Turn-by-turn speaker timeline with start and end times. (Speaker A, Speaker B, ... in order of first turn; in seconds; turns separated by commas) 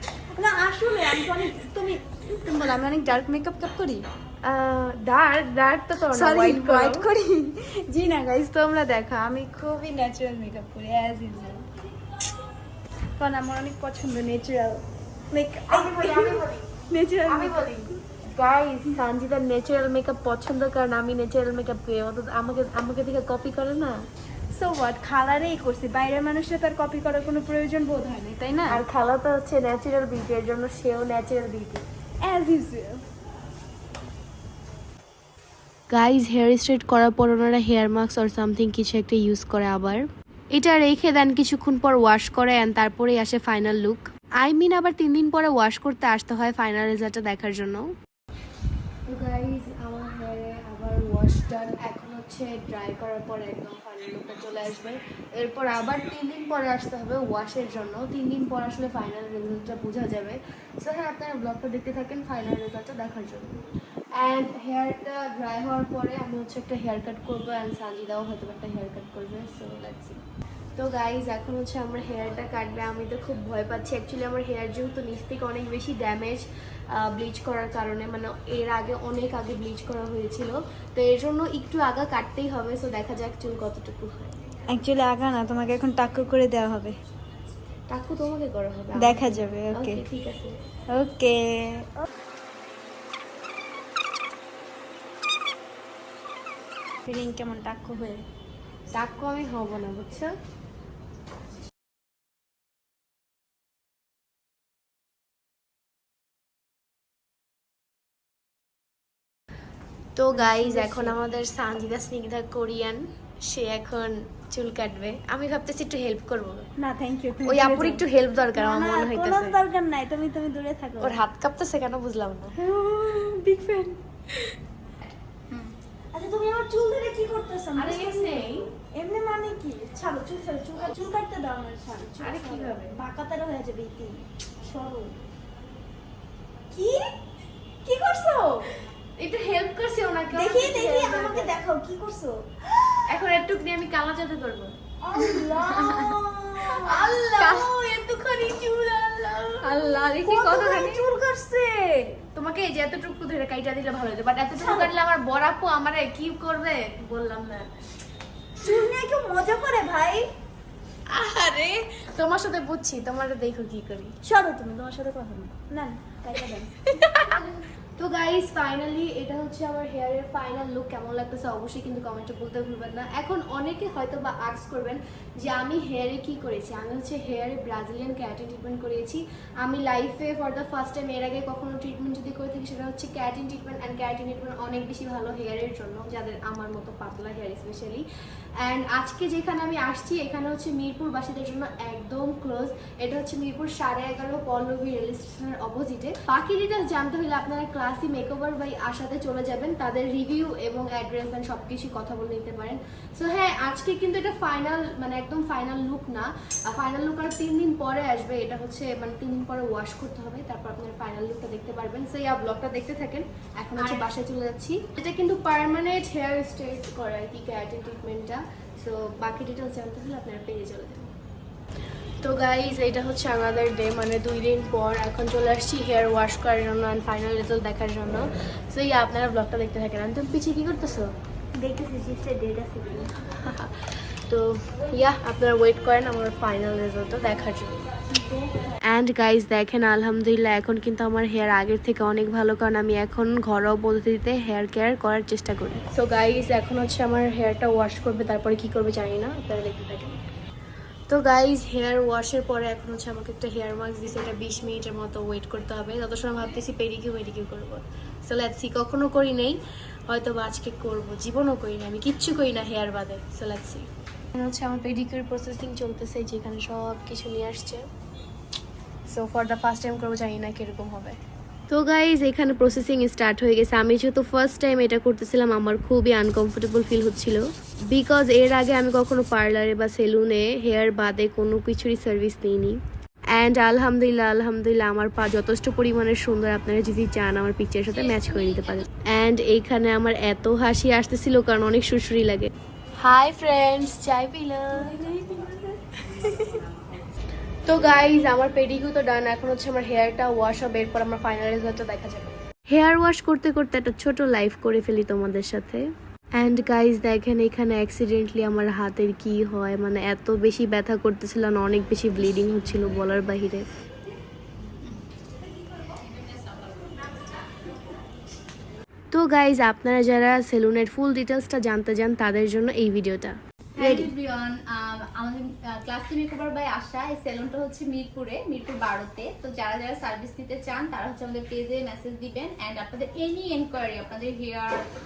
Speaker A: 0.3-4.1, Speaker B: 4.4-7.1, Speaker A: 6.1-11.7, Speaker A: 13.2-17.9, Speaker B: 15.7-16.7, Speaker B: 17.3-24.0, Speaker A: 24.5-28.8, Speaker B: 28.7-31.8, Speaker A: 32.2-33.0, Speaker B: 35.9-47.9, Speaker B: 49.1-63.7, Speaker B: 64.2-70.2, Speaker B: 70.8-84.3, Speaker A: 84.7-87.0, Speaker B: 87.9-90.5, Speaker A: 89.0-90.0, Speaker A: 90.9-92.0, Speaker A: 97.1-98.2, Speaker B: 98.9-100.3, Speaker B: 110.2-116.7, Speaker A: 110.3-111.2, Speaker A: 116.8-121.2, Speaker B: 117.5-119.6, Speaker B: 121.0-122.6, Speaker A: 122.6-124.0, Speaker A: 126.1-135.2, Speaker B: 127.8-128.7, Speaker B: 132.2-132.9, Speaker A: 136.7-137.1, Speaker A: 137.8-138.7, Speaker B: 139.2-141.6, Speaker A: 140.3-143.2, Speaker B: 143.1-144.8, Speaker A: 145.0-147.2, Speaker C: 145.2-146.2, Speaker B: 146.6-149.7, Speaker C: 147.4-147.7, Speaker C: 149.6-151.1, Speaker A: 150.2-152.2, Speaker B: 152.3-157.7, Speaker A: 154.6-154.9, Speaker A: 158.6-160.3, Speaker B: 161.1-164.1, Speaker A: 164.2-166.9, Speaker B: 166.9-167.5, Speaker B: 168.0-188.0, Speaker B: 188.6-221.1, Speaker A: 213.8-214.1, Speaker B: 222.2-231.1, Speaker A: 231.6-233.1, Speaker B: 233.0-233.7, Speaker B: 234.3-237.8, Speaker B: 238.9-250.2, Speaker B: 251.1-267.8, Speaker B: 269.1-271.2, Speaker B: 271.7-282.8, Speaker B: 283.3-295.0, Speaker A: 294.7-295.8, Speaker B: 296.0-296.6, Speaker B: 297.7-305.8, Speaker B: 306.4-313.7, Speaker C: 315.7-317.3, Speaker B: 319.1-324.1, Speaker C: 323.8-334.8